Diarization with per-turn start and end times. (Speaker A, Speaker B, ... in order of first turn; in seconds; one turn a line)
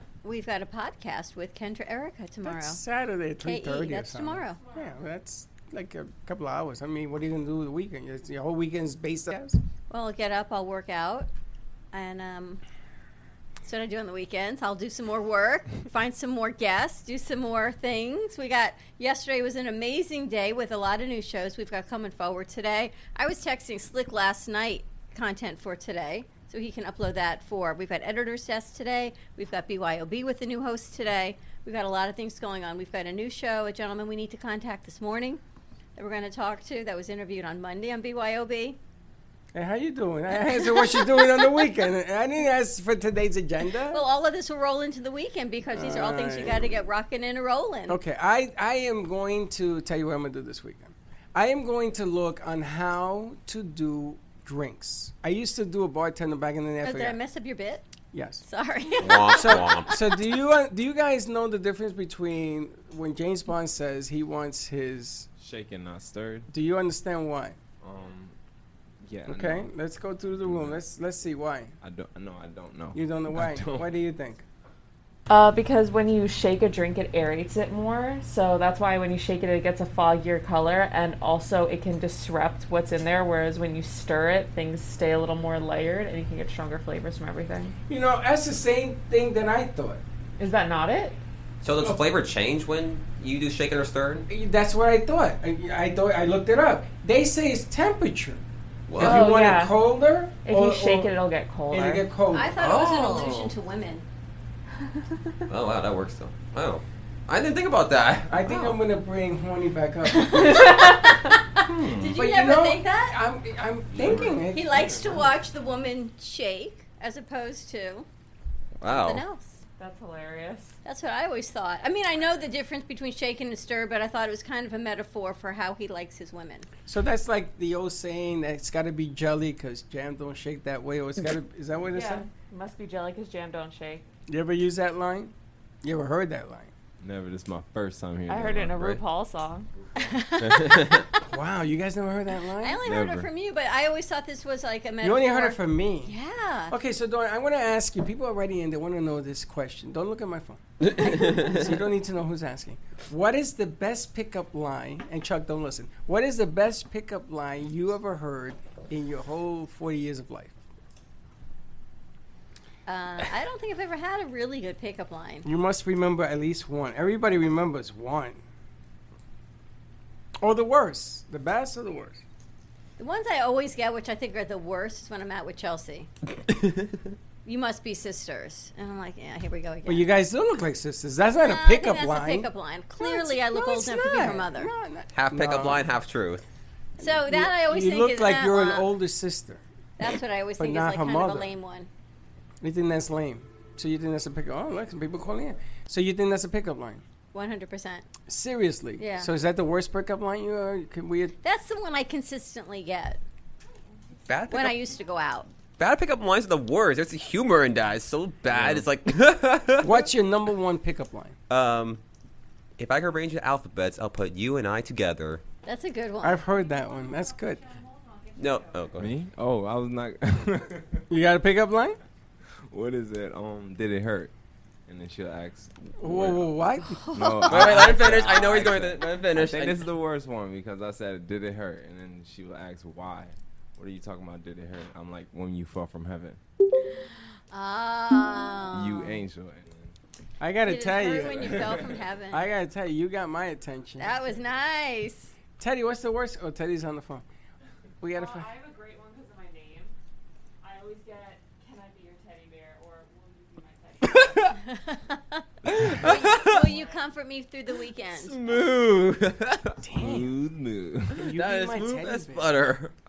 Speaker A: 0.2-2.8
Speaker B: 2.4-9.6
Speaker A: 3.4-4.6
Speaker C: 4.4-5.2
Speaker A: 9.9-11.3
Speaker A: 11.9-12.6
Speaker A: 13.6-35.4
Speaker A: 36.0-38.8
Speaker B: 39.5-44.0
Speaker A: 40.4-41.6
Speaker A: 43.9-48.0
Speaker B: 45.7-46.7
Speaker B: 47.9-57.2
Speaker A: 56.8-57.9
Speaker B: 58.1-58.4
Speaker A: 58.4-60.0
Speaker D: 59.0-59.9
Speaker B: 59.3-65.3
Speaker E: 65.4-66.5
Speaker B: 66.5-67.6
Speaker E: 67.8-68.3
Speaker E: 69.0-69.7
Speaker B: 69.3-71.8
Speaker E: 70.4-70.8
Speaker E: 71.8-73.9
Speaker B: 72.9-74.4
Speaker F: 75.3-87.7
Speaker B: 87.9-90.0
Speaker F: 90.4-91.2
Speaker D: 91.6-94.2
Speaker B: 94.3-98.4
Speaker D: 98.9-99.3
Speaker B: 99.0-101.1
Speaker F: 99.0-99.8
Speaker F: 100.4-102.1
Speaker B: 101.7-102.5
Speaker A: 102.3-104.1
Speaker D: 102.6-103.5
Speaker D: 105.5-108.8
Speaker B: 108.3-110.7
Speaker A: 110.1-113.2
Speaker D: 111.7-112.1
Speaker B: 112.1-115.2
Speaker D: 114.0-114.4
Speaker A: 114.5-118.1
Speaker D: 118.8-119.2
Speaker A: 118.9-119.6
Speaker F: 119.8-120.8
Speaker A: 120.8-126.7
Speaker B: 126.9-132.3
Speaker F: 131.9-134.1
Speaker B: 134.3-136.7
Speaker E: 137.0-139.0
Speaker F: 138.3-139.7
Speaker A: 140.0-140.9
Speaker B: 141.3-142.8
Speaker A: 142.6-146.7
Speaker E: 142.8-143.3
Speaker B: 145.0-146.1
Speaker B: 146.7-160.6
Speaker A: 151.0-151.5
Speaker D: 151.1-151.5
Speaker A: 162.9-165.5
Speaker B: 165.4-168.4
Speaker B: 170.4-172.2
Speaker A: 173.0-176.1
Speaker A: 177.4-180.1
Speaker B: 179.9-185.9
Speaker A: 181.4-184.7
Speaker D: 185.1-186.4
Speaker A: 187.0-188.9
Speaker B: 187.0-189.6
Speaker A: 190.0-191.9
Speaker B: 190.6-191.5
Speaker B: 192.6-197.0
Speaker A: 197.3-198.1
Speaker B: 198.3-201.4
Speaker A: 199.0-199.3
Speaker A: 201.4-203.2
Speaker D: 204.3-204.8
Speaker A: 204.5-205.5
Speaker D: 205.8-210.1
Speaker E: 208.5-208.8
Speaker B: 209.8-211.4
Speaker D: 211.5-212.0
Speaker D: 212.8-215.4
Speaker A: 215.7-216.4
Speaker B: 216.2-217.6
Speaker C: 216.3-219.0
Speaker D: 218.4-219.1
Speaker E: 219.0-221.1
Speaker B: 221.1-222.0
Speaker E: 222.7-224.3
Speaker E: 224.9-226.4
Speaker B: 226.0-227.0
Speaker A: 226.9-228.4
Speaker E: 227.1-236.4
Speaker D: 227.5-229.9
Speaker B: 227.5-228.3
Speaker A: 236.9-239.2
Speaker E: 238.7-239.9
Speaker B: 240.4-241.7
Speaker A: 240.7-242.5
Speaker E: 241.2-242.0
Speaker B: 242.3-244.1
Speaker A: 244.0-245.3
Speaker B: 245.6-247.2
Speaker B: 248.0-248.5
Speaker C: 248.1-249.9
Speaker C: 250.6-254.6
Speaker A: 254.7-255.4
Speaker C: 255.9-257.1
Speaker A: 256.0-258.4
Speaker D: 256.0-256.6
Speaker D: 258.2-259.8
Speaker B: 259.8-260.3
Speaker E: 260.0-261.2
Speaker B: 261.1-262.5
Speaker D: 261.3-262.9